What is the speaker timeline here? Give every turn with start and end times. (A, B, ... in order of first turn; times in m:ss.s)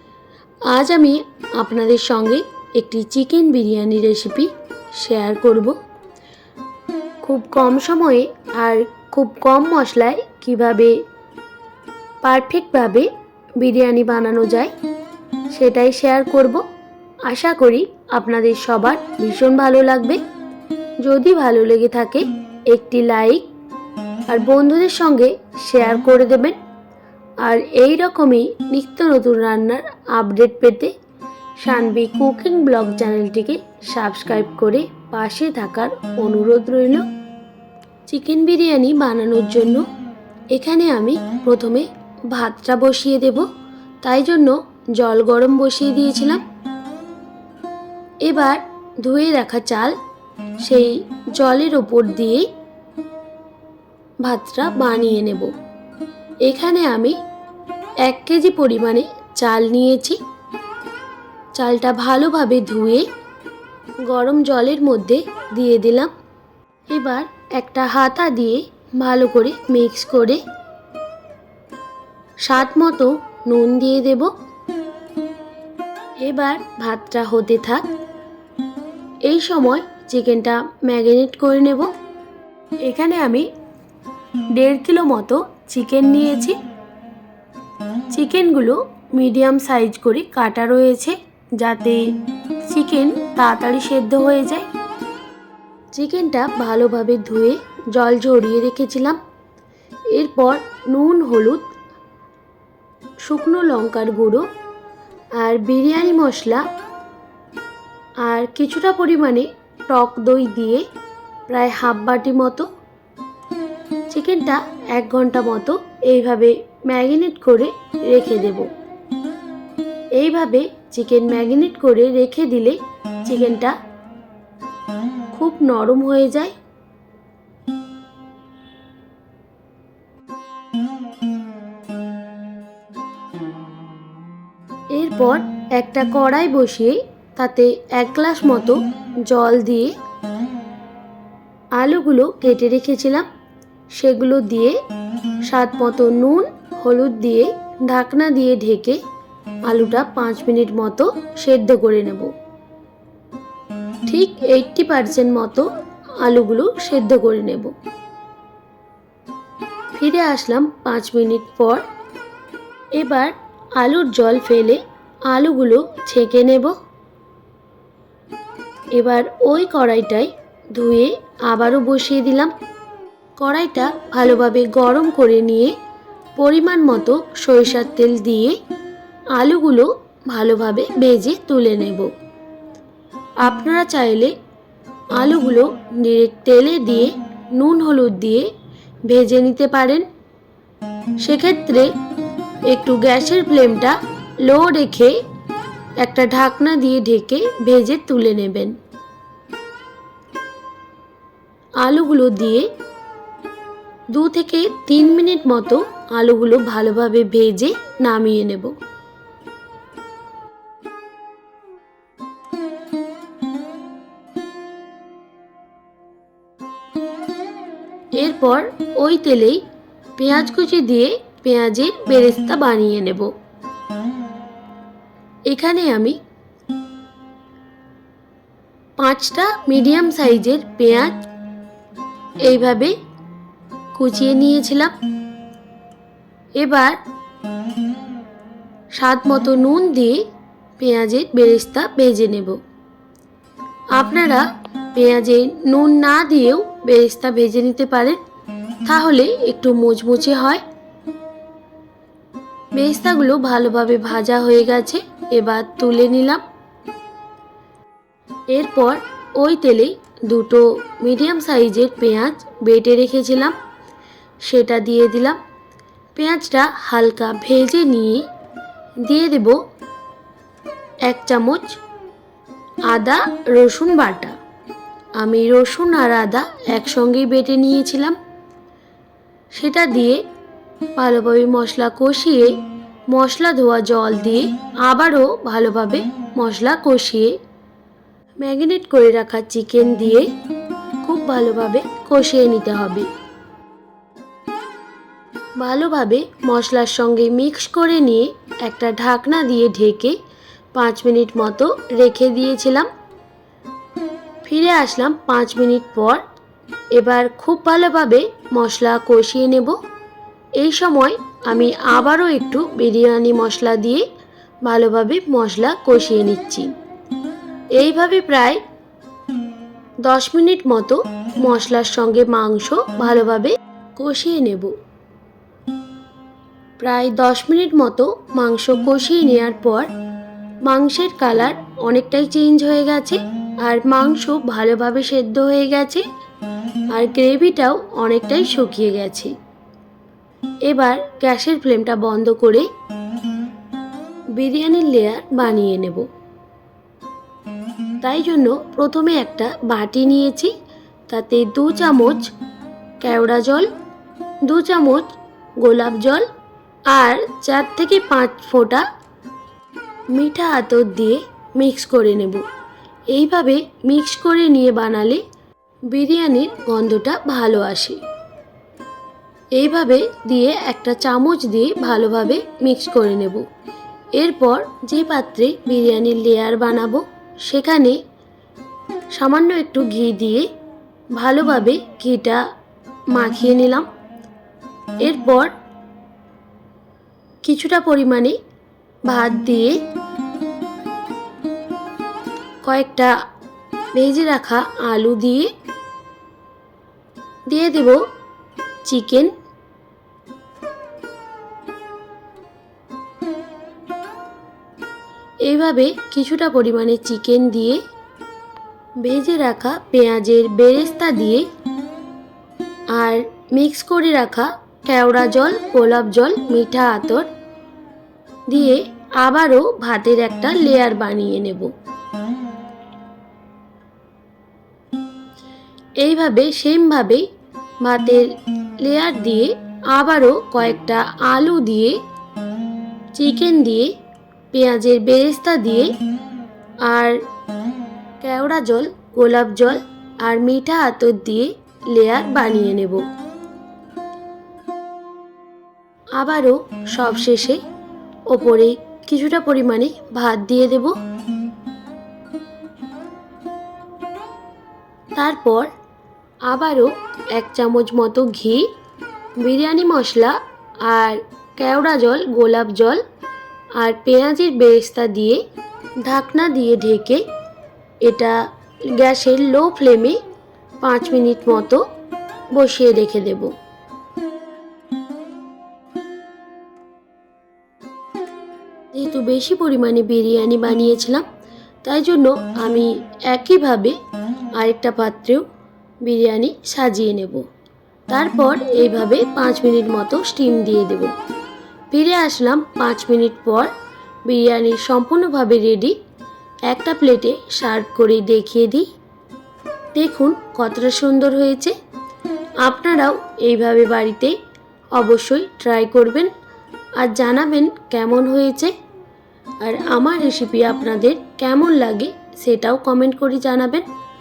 0:00.7-0:05.8 A
0:07.2-0:10.9 A
0:12.2-0:14.7 A
0:15.5-0:16.6 A
0:17.2-0:20.2 A
0:21.0-0:23.5 A
0:24.3-0:26.6 A
0:27.4-0:30.9 A
0:31.6-0:37.0 A
0:38.1-0:39.8 A
0:40.5-0:43.4 A
0:44.0-0:46.4 A
0:48.2-0:49.9 A
0:50.6-0:52.5 A
0:54.2-0:55.5 A
0:56.4-0:57.2 A
0:58.0-1:00.2 A
1:01.5-1:03.0 A
1:04.0-1:06.1 A
1:06.9-1:10.4 A
1:12.4-1:14.3 A
1:16.2-1:17.9 A
1:19.2-1:21.9 A
1:22.8-1:23.5 A
1:24.5-1:26.6 A
1:28.1-1:32.0 A
1:32.6-1:34.6 A
1:35.9-1:39.2 A
1:40.1-1:41.7 A
1:43.2-1:44.5 A
1:45.4-1:46.6 A
1:48.2-1:50.8 A
1:51.5-1:52.7 A
1:54.1-1:58.7 A
2:00.2-2:03.7 A
2:05.3-2:06.5 A
2:14.9-2:19.9 A
2:21.8-2:23.3 A
2:23.9-2:24.8 A
2:25.4-2:29.0 A
2:29.6-2:32.3 A
2:34.0-2:35.7 A
2:36.2-2:37.7 A
2:39.9-2:41.8 A
2:42.9-2:46.7 A
2:48.9-2:52.5 A
2:53.4-2:55.7 A
2:56.4-2:58.6 A
2:59.3-3:02.1 A
3:03.4-3:04.3 A
3:05.2-3:08.5 A
3:09.1-3:10.0 A
3:11.2-3:11.9 A
3:12.7-3:15.2 A
3:16.0-3:18.7 A
3:21.8-3:22.7 A
3:24.1-3:28.8 A
3:38.2-3:39.6 A
3:40.2-3:43.3 A
3:45.5-3:46.2 A
3:49.0-3:51.2 A
3:52.4-3:52.9 A
3:53.9-3:55.0 A
3:56.6-3:57.0 A
3:58.9-4:00.2 A
4:00.8-4:02.6 A
4:03.9-4:08.2 A
4:08.8-4:10.6 A
4:12.7-4:16.4 A
4:18.5-4:23.6 A
4:24.4-4:25.4 A
4:26.1-4:28.2 A
4:29.0-4:29.6 A
4:31.0-4:31.8 A
4:32.9-4:34.3 A
4:35.2-4:38.2 A
4:39.5-4:40.2 A
4:41.0-4:42.6 A
4:43.1-4:47.4 A
4:48.4-4:50.3 A
4:51.0-4:53.1 A
4:55.6-5:00.2 A
5:00.7-5:02.9 A
5:04.4-5:06.2 A
5:06.9-5:09.8 A
5:10.6-5:14.0 A
5:14.6-5:16.7 A
5:17.8-5:18.6 A
5:20.0-5:24.7 A
5:26.8-5:29.9 A
5:30.6-5:36.0 A
5:36.9-5:39.3 A
5:40.6-5:42.7 A
5:44.3-5:46.1 A
5:48.0-5:50.5 A
5:51.1-5:52.3 A
5:53.0-5:53.7 A
5:54.4-5:56.2 A
5:56.9-5:58.8 A
6:00.1-6:02.4 A
6:03.1-6:05.2 A
6:05.9-6:08.0 A
6:09.5-6:13.4 A
6:14.1-6:18.0 A
6:19.1-6:20.5 A
6:21.1-6:22.4 A
6:23.1-6:23.9 A
6:25.0-6:25.5 A
6:27.4-6:28.4 A
6:29.1-6:29.8 A
6:32.6-6:33.1 A
6:33.9-6:35.5 A
6:37.5-6:38.0 A
6:38.8-6:39.3 A
6:45.4-6:47.8 A
6:49.0-6:51.4 A
6:52.9-6:57.3 A
6:58.5-7:01.7 A
7:06.0-7:07.2 A
7:07.8-7:08.3 A
7:08.8-7:12.0 A
7:13.1-7:13.9 A
7:14.5-7:15.9 A
7:16.8-7:17.2 A
7:18.2-7:23.0 A
7:26.2-7:27.6 A
7:28.3-7:31.0 A
7:35.1-7:35.7 A
7:36.4-7:38.7 A
7:39.4-7:43.0 A
7:43.8-7:45.4 A
7:46.0-7:47.2 A
7:48.0-7:50.2 A
7:50.8-7:51.8 A
7:52.5-7:53.5 A
7:58.9-8:01.2 A
8:01.8-8:04.0 A
8:04.5-8:05.5 A
8:06.0-8:07.4 A
8:08.1-8:11.1 A
8:11.9-8:13.7 A
8:14.2-8:15.9 A
8:16.7-8:18.9 A
8:19.9-8:21.7 A
8:22.6-8:24.3 A
8:24.9-8:26.3 A
8:27.0-8:28.7 A
8:29.6-8:33.9 A